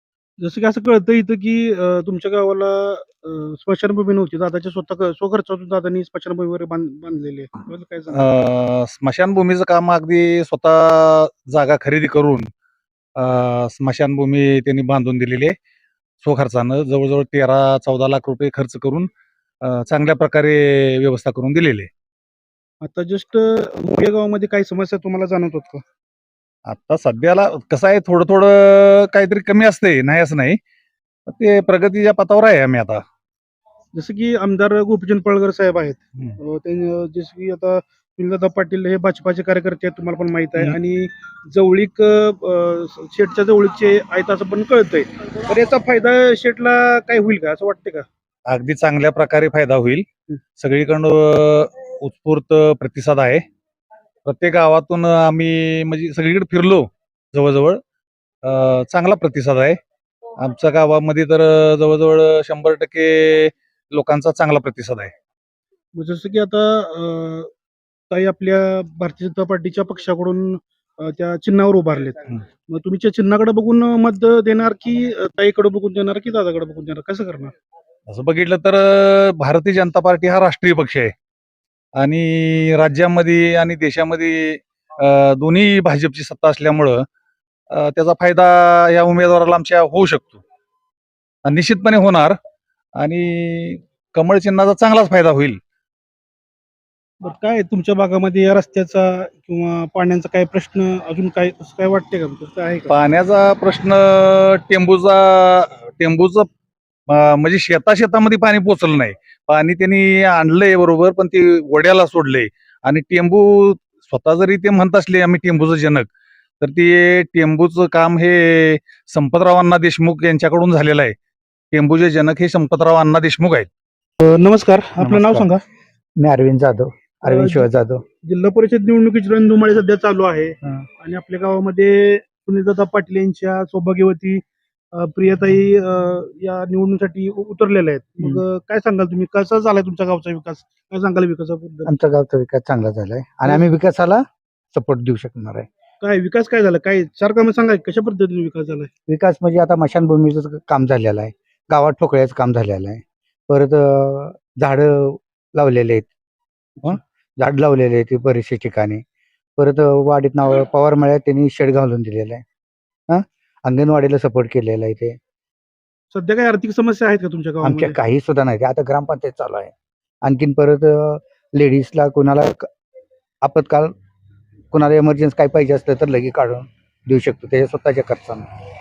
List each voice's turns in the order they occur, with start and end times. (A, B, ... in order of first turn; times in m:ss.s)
0:00.4-0:08.3 A
0:08.1-0:12.5 B
0:13.2-0:15.5 B
0:16.2-0:19.1 B
0:19.6-0:21.9 B
0:22.8-0:25.8 A
0:26.7-0:30.6 B
0:31.3-0:33.0 B
0:33.9-0:48.0 A
0:48.5-0:50.0 B
0:50.6-0:53.4 B
0:54.2-0:57.8 B
0:58.4-0:59.8 B
1:00.4-1:05.1 B
1:05.9-1:07.5 A
1:08.1-1:17.5 A
1:18.1-1:21.1 B
1:22.0-1:27.0 B
1:27.7-1:30.4 B
1:31.4-1:32.3 B
1:33.0-1:35.6 B
1:37.2-1:42.9 A
1:42.9-1:46.5 B
1:47.1-1:56.1 B
1:56.6-2:01.1 B
2:01.7-2:03.7 B
2:04.2-2:05.6 A
2:05.0-2:05.4 C
2:06.2-2:08.0 C
2:07.2-2:07.7 A
2:08.2-2:21.9 A
2:21.8-2:25.7 C
2:26.0-2:28.9 A
2:29.1-2:36.1 C
2:36.8-2:39.0 C
2:39.6-2:42.4 C
2:43.1-2:45.2 C
2:46.1-2:48.0 A
2:47.6-2:49.7 C
2:50.2-2:52.7 C
2:53.4-2:53.9 C
2:54.7-2:58.5 C